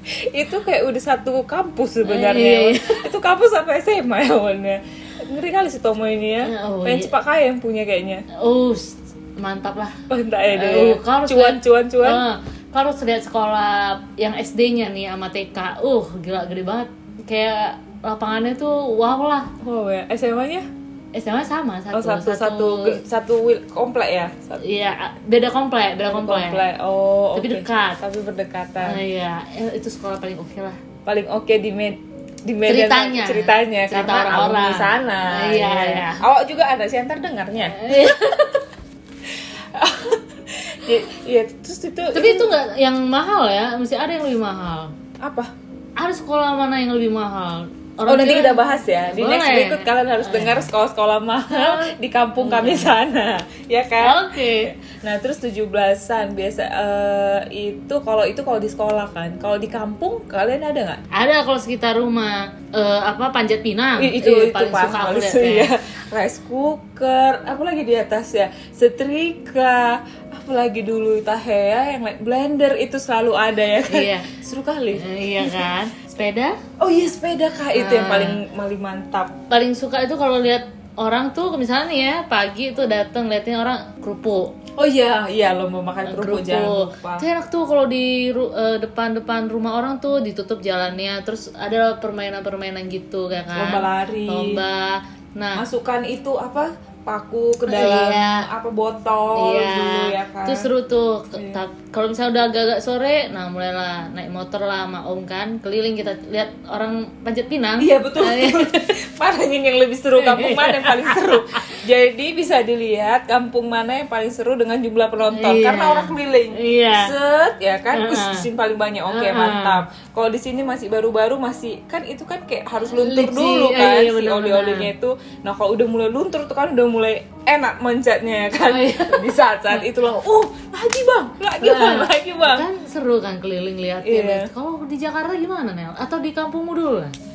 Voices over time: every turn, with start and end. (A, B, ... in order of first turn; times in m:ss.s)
0:00.3-0:08.2 A
0:02.0-0:03.0 B
0:06.4-0:07.1 B
0:08.4-0:19.5 B
0:10.1-0:12.2 A
0:19.6-0:20.6 A
0:21.1-0:23.0 B
0:21.9-0:24.6 A
0:24.6-0:26.6 B
0:26.1-0:29.0 A
0:27.3-0:28.0 B
0:28.8-0:30.8 B
0:31.0-0:37.9 A
0:32.6-0:36.2 B
0:37.6-0:38.6 B
0:39.7-0:42.5 A
0:42.1-0:44.9 B
0:45.2-0:45.5 A
0:46.0-0:50.7 B
0:48.1-1:01.0 A
0:51.5-0:52.9 B
0:54.0-0:54.7 B
1:01.1-1:05.7 B
1:04.0-1:15.7 A
1:13.8-1:14.3 B
1:14.9-1:16.6 B
1:16.8-1:19.3 A
1:17.7-1:18.4 B
1:19.5-1:24.5 B
1:24.8-1:27.2 A
1:26.0-1:35.6 B
1:33.5-1:34.6 A
1:35.5-1:40.7 A
1:37.6-1:38.4 B
1:39.4-1:48.9 B
1:47.8-2:12.7 A
1:50.2-1:51.6 B
1:55.3-1:57.1 B
1:57.9-1:58.5 B
1:59.1-1:59.8 B
2:02.9-2:04.9 B
2:08.6-2:09.8 B
2:11.6-2:17.1 B
2:14.0-2:14.5 A